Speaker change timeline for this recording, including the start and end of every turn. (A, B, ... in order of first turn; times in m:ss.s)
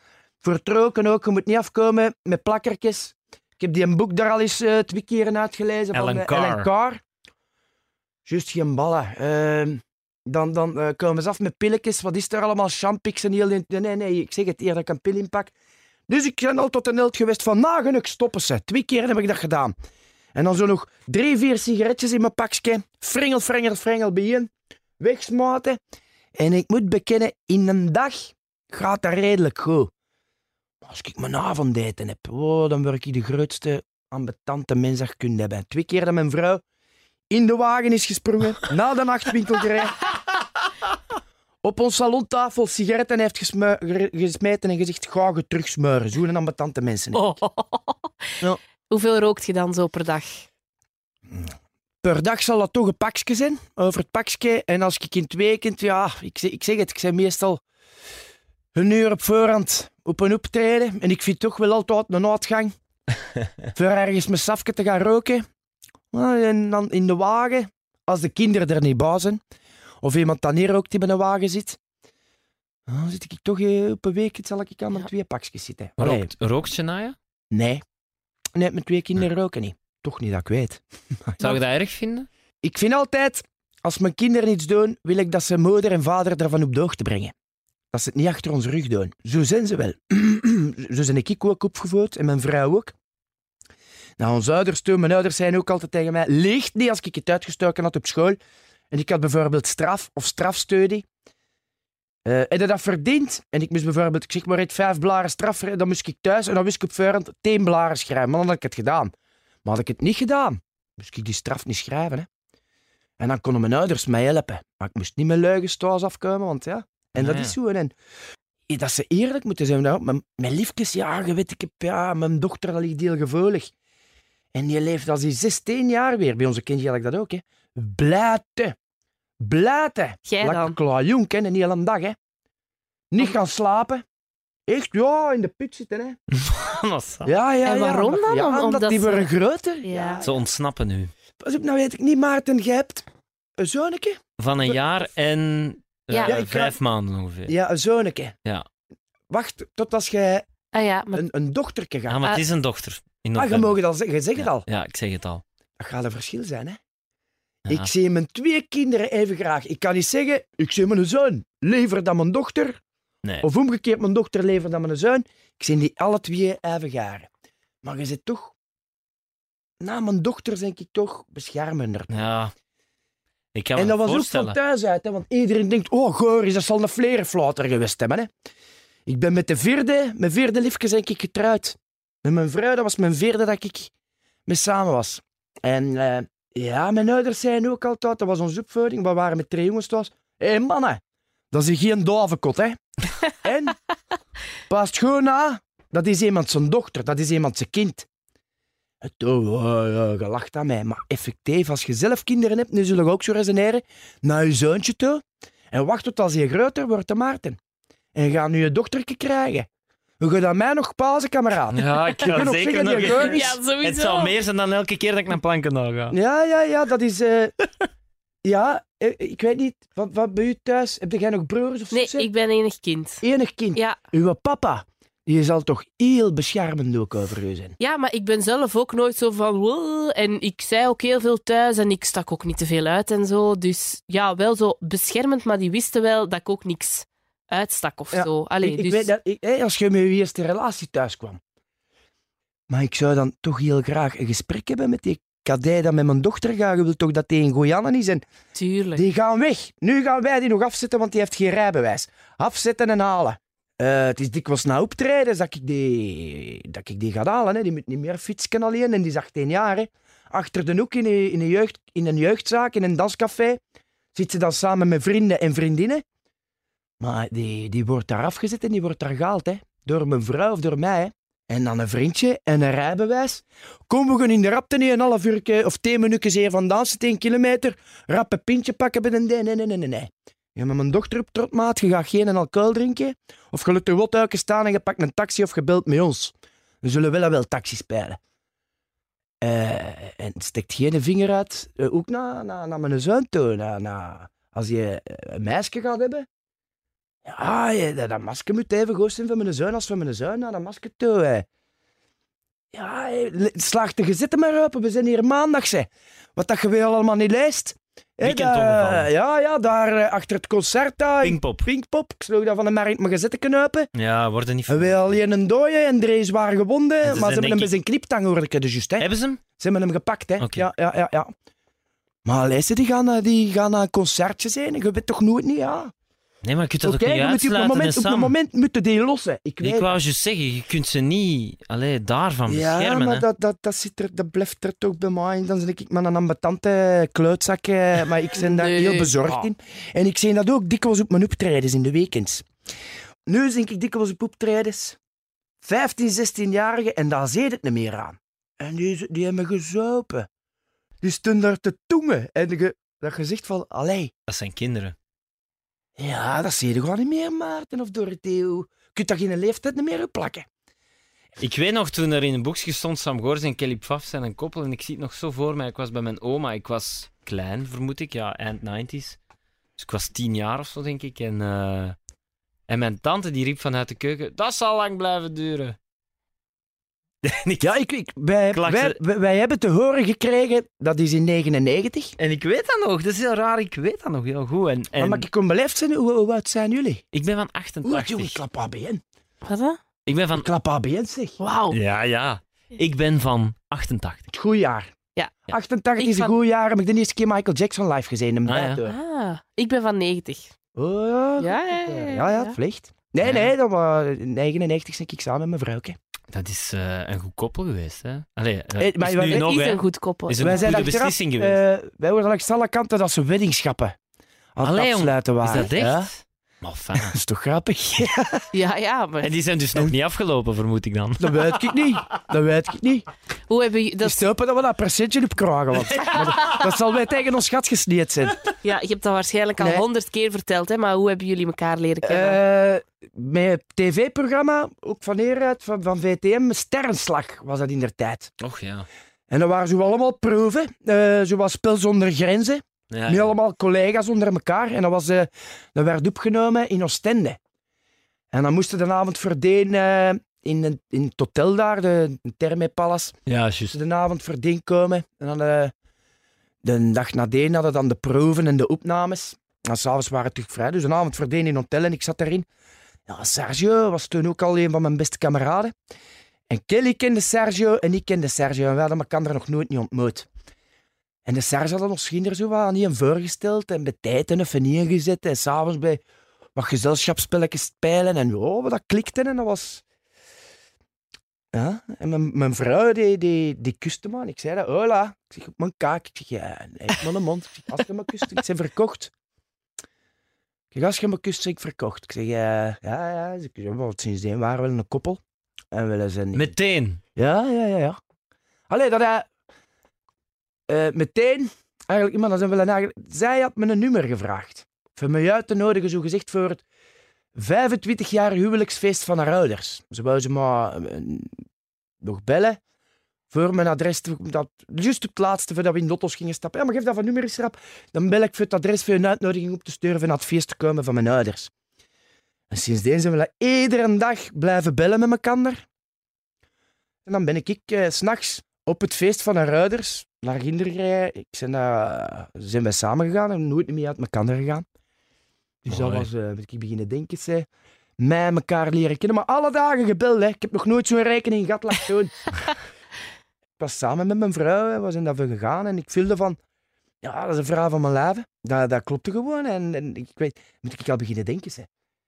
0:00.4-0:07.0 A
0:05.9-0:06.7 B
0:08.3-0:15.5 A
0:16.1-0:19.7 A
0:20.4-0:25.8 A
0:26.4-0:29.9 A
0:30.8-0:36.6 A
0:37.3-0:40.1 A
0:41.6-0:47.2 A
0:47.1-0:50.4 C
0:51.3-0:57.6 A
0:58.8-1:02.7 A
1:03.8-1:05.4 A
1:06.1-1:09.4 A
1:10.0-1:11.8 A
1:12.9-1:16.3 A
1:16.0-1:17.2 B
1:17.5-1:17.8 A
1:18.6-1:21.4 A
1:21.4-1:22.3 B
1:22.6-1:27.3 A
1:27.9-1:32.9 A
1:34.2-1:38.4 A
1:38.9-1:41.1 A
1:42.2-1:49.1 A
1:49.6-1:52.3 A
1:53.2-1:57.9 A
1:57.2-1:57.6 B
1:58.7-2:03.7 A
2:04.5-2:08.8 A
2:09.4-2:12.2 A
2:10.3-2:10.8 C
2:13.1-2:14.0 A
2:14.7-2:16.2 A
2:16.3-2:17.3 B
2:17.2-2:20.5 A
2:17.6-2:19.3 C
2:19.8-2:20.2 C
2:20.2-2:21.1 B
2:21.4-2:23.0 A
2:23.6-2:24.8 A
2:24.4-2:27.5 B
2:26.1-2:26.4 C
2:26.2-2:26.8 A
2:27.5-2:28.4 A
2:29.3-2:30.5 A
2:30.7-2:31.3 C
2:31.1-2:32.3 A
2:32.1-2:33.8 B
2:33.4-2:34.7 A
2:34.4-2:35.4 B
2:35.8-2:36.8 A
2:37.7-2:42.8 A
2:43.4-2:47.3 A
2:47.8-2:48.6 A
2:49.8-2:52.1 A
2:52.1-2:52.5 B
2:53.6-2:54.6 B
2:53.8-2:58.3 A
2:59.1-3:03.9 A
3:04.5-3:11.0 A
3:11.5-3:13.8 A
3:14.7-3:18.1 A
3:19.0-3:27.6 A
3:28.2-3:29.7 A
3:30.2-3:33.5 A
3:31.7-3:36.2 B
3:33.0-3:34.3 C
3:36.1-3:37.5 A
3:38.4-3:42.3 A
3:41.9-3:43.2 C
3:43.2-3:47.8 A
3:43.7-3:44.0 C
3:47.8-3:59.1 C
3:58.1-4:01.4 A
4:02.7-4:08.2 A
4:08.6-4:09.0 C
4:09.0-4:23.6 A
4:24.1-4:26.0 A
4:27.0-4:48.2 A
4:49.4-4:56.3 A
4:57.2-5:01.5 A
5:02.7-5:13.9 A
5:08.2-5:09.1 B
5:11.2-5:11.7 B
5:14.0-5:15.2 B
5:14.7-5:21.3 A
5:17.0-5:17.7 B
5:19.0-5:19.4 B
5:20.4-5:20.7 B
5:22.2-5:25.9 A
5:26.4-5:28.3 B
5:26.8-5:30.0 A
5:29.6-5:33.2 B
5:32.5-5:42.5 A
5:38.4-5:39.3 C
5:43.3-5:45.0 A
5:45.6-5:50.3 A
5:51.0-5:54.1 A
5:54.3-5:55.0 B
5:56.0-6:00.5 A
6:01.4-6:09.2 B
6:09.8-6:12.0 B
6:12.7-6:15.8 B
6:17.2-6:17.7 B
6:17.6-6:22.2 A
6:18.5-6:19.0 B
6:22.2-6:25.2 B
6:25.0-6:27.0 A
6:27.1-6:28.4 B
6:27.8-6:29.0 A
6:29.4-6:29.8 C
6:30.1-6:30.5 B
6:30.3-6:31.4 A
6:31.4-6:31.8 C
6:31.7-6:34.3 B
6:34.3-6:34.9 A
6:35.5-6:39.0 A
6:36.0-6:36.3 C
6:38.5-6:38.8 B
6:38.9-6:40.5 C
6:40.8-6:46.0 A
6:41.4-6:42.6 C
6:43.2-6:43.5 B
6:46.3-6:51.6 B
6:48.8-6:49.5 A
6:49.3-6:50.8 C
6:50.4-6:54.0 A
6:54.6-6:56.1 A
6:54.6-6:57.2 B
6:57.0-6:58.5 A
6:58.5-6:59.3 C
6:59.2-7:02.2 B
7:01.2-7:03.1 A
7:03.5-7:04.2 C
7:04.0-7:08.4 A
7:05.8-7:06.7 B
7:08.6-7:12.4 C
7:09.6-7:09.8 A
7:12.0-7:18.3 A
7:18.4-7:18.9 B
7:19.3-7:27.4 A
7:22.9-7:23.3 B
7:28.3-7:33.2 A
7:33.3-7:33.8 B
7:33.7-7:35.7 A
7:36.6-7:42.5 A
7:43.1-7:45.7 A
7:46.5-7:50.3 A
7:51.2-7:56.0 A
7:56.6-7:59.8 A
8:01.5-8:09.1 A
8:10.7-8:15.2 A
8:15.7-8:16.5 A
8:16.3-8:17.0 B
8:17.2-8:18.0 A
8:18.7-8:19.3 A
8:20.7-8:26.6 A
8:27.4-8:31.4 A
8:32.0-8:32.6 A
8:33.3-8:41.5 A
8:42.5-8:45.6 A
8:47.1-8:54.6 A
8:55.6-8:57.5 A
8:55.7-8:56.1 B
8:58.0-9:02.3 A
9:03.6-9:06.4 A
9:07.0-9:11.7 A